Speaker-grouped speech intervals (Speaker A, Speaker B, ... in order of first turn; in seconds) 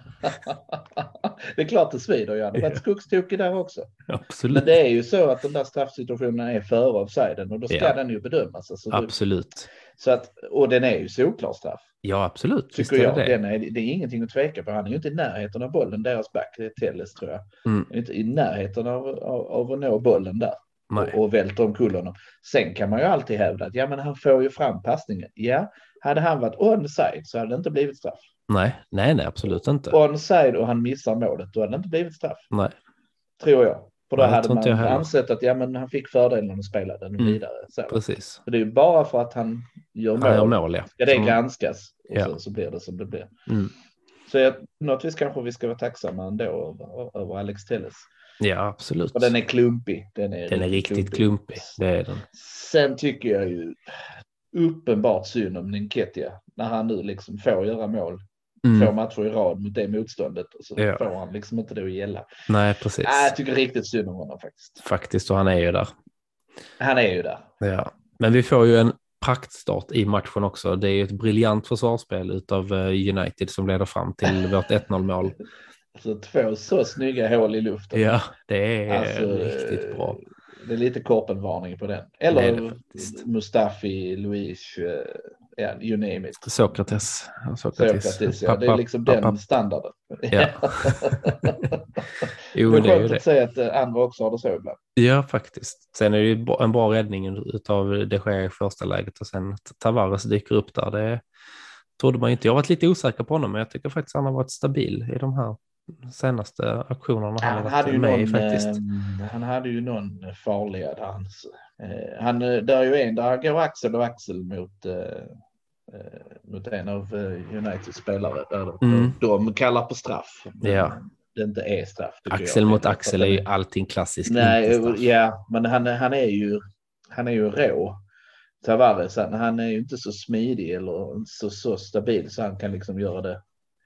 Speaker A: 0.2-3.9, 4.5-9.1, 9.9-11.8, 12.7-28.3, 29.9-32.5, 33.4-43.3, 44.3-48.1, 49.1-51.8, 52.3-53.8, 54.5-62.3, 63.0-64.8, 66.8-67.5, 76.0-78.1, 78.9-86.5, 87.8-94.8, 107.4-115.4, 115.9-123.5, 124.2-126.6, 127.1-128.0, 128.6-133.4
Speaker B: 2.5-2.8, 4.1-4.8, 8.9-9.7, 12.0-13.3, 20.9-21.2, 28.5-30.0, 34.2-35.1, 37.2-38.4, 40.2-41.4, 43.5-43.7, 48.4-49.3, 50.5-52.2, 58.6-58.9, 60.8-61.0, 62.5-63.3, 64.8-65.9, 67.6-75.3, 77.9-80.2, 82.3-83.2, 86.4-89.4, 90.3-91.7, 92.5-93.2, 95.0-101.2, 102.0-108.8, 118.8-119.2, 120.6-121.0, 122.3-125.0